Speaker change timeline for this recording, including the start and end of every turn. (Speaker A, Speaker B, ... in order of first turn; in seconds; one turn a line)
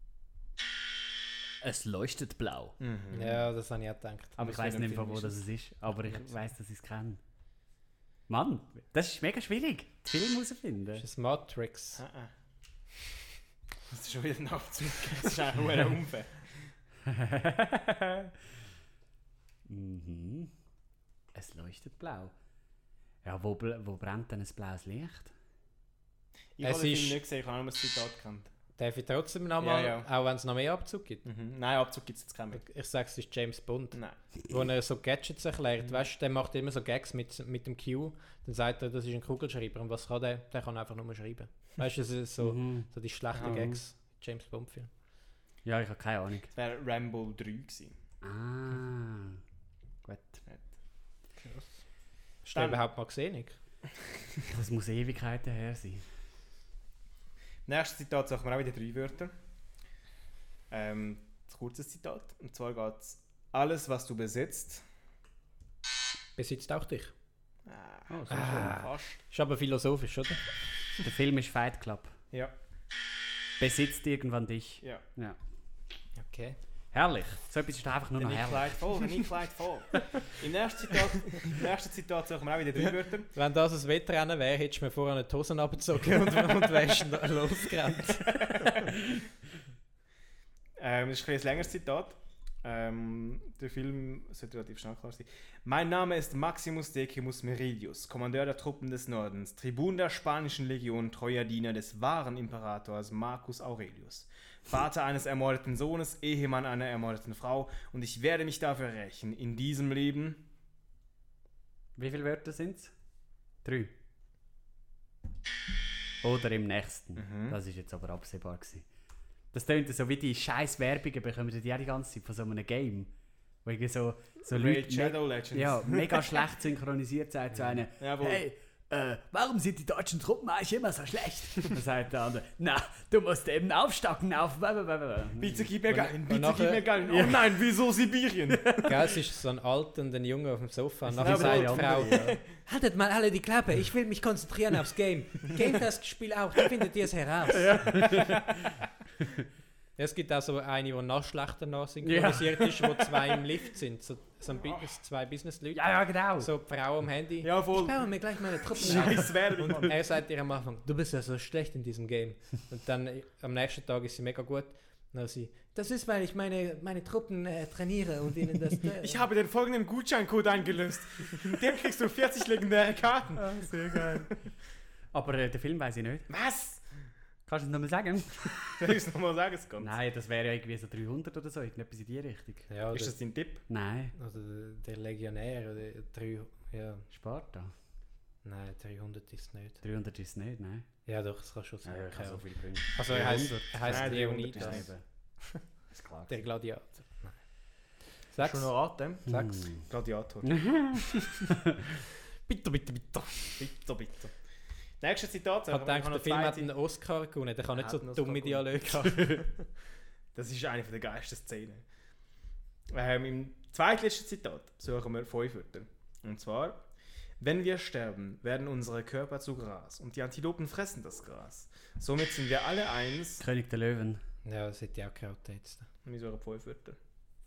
Speaker A: 1.6-2.8
Speaker B: 2.8-3.4
Speaker C: 3.1-4.6
Speaker A: 4.4-7.2
Speaker B: 4.4-5.3
Speaker A: 8.3-11.0
Speaker C: 11.0-12.0
Speaker B: 12.0-12.3
Speaker B: 13.9-16.7
Speaker A: 17.1-18.3
Speaker A: 19.7-20.5
Speaker A: 21.3-22.3
Speaker A: 23.2-25.3
Speaker B: 26.6-28.5
Speaker C: 26.6-27.2
Speaker C: 28.8-31.2
Speaker B: 29.6-30.1
Speaker B: 31.2-32.6
Speaker C: 32.5-44.9
Speaker A: 42.4-42.9
Speaker B: 43.3-43.7
Speaker A: 43.4-43.8
Speaker A: 45.6-46.5
Speaker B: 46.5-48.0
Speaker A: 48.2-49.4
Speaker A: 50.0-50.4
Speaker C: 51.4-51.8
Speaker C: 52.4-53.6
Speaker B: 52.5-52.8
Speaker A: 54.5-56.0
Speaker B: 57.7-59.3
Speaker B: 60.7-64.8
Speaker C: 66.4-67.1
Speaker B: 67.7-69.2
Speaker A: 68.1-68.8
Speaker C: 68.3-70.5
Speaker A: 71.0-72.1
Speaker A: 73.6-75.4
Speaker C: 76.2-76.6
Speaker A: 76.9-78.8
Speaker B: 78.2-83.3
Speaker C: 83.3-88.9
Speaker B: 86.3-87.0
Speaker B: 90.8-110.4
Speaker A: 112.0-112.9
Speaker A: 113.6-113.9
Speaker A: 116.2-118.8
Speaker B: 117.2-117.6
Speaker A: 119.5-123.1
Speaker A: 123.7-135.7
Speaker B: 124.5-126.4
Speaker B: 128.0-128.4
Speaker B: 135.4-139.1
Speaker C: 135.9-136.9
Speaker A: 137.0-137.4
Speaker C: 138.8-147.8
Speaker A: 141.1-142.4
Speaker B: 141.2-142.4
Speaker A: 147.5-148.8
Speaker B: 148.1-148.4
Speaker C: 150.0-169.2
Speaker A: 152.0-153.2
Speaker B: 154.6-154.9
Speaker A: 155.7-156.5
Speaker B: 157.4-160.0
Speaker A: 158.8-159.9
Speaker B: 169.0-174.3
Speaker A: 173.4-174.3
Speaker A: 175.1-176.3
Speaker B: 176.3-176.8
Speaker A: 177.5-178.9
Speaker B: 178.7-180.0
Speaker A: 179.8-182.7
Speaker C: 182.7-183.2
Speaker B: 182.9-183.7
Speaker A: 183.7-184.1
Speaker C: 184.2-187.1
Speaker A: 187.1-187.7
Speaker C: 188.4-189.8
Speaker A: 189.8-190.9
Speaker C: 191.1-194.9
Speaker A: 191.8-195.0
Speaker B: 193.1-194.9
Speaker A: 195.9-196.4
Speaker C: 196.3-197.4
Speaker C: 198.3-199.7
Speaker B: 198.4-200.7
Speaker A: 199.4-199.8
Speaker A: 200.4-201.8
Speaker C: 202.5-203.6
Speaker B: 203.6-204.3
Speaker B: 205.0-206.7
Speaker C: 205.7-209.4
Speaker B: 207.8-209.5
Speaker B: 210.3-211.8
Speaker B: 212.9-216.8
Speaker B: 217.4-223.4
Speaker A: 223.4-224.2
Speaker C: 224.4-225.9
Speaker B: 226.1-227.0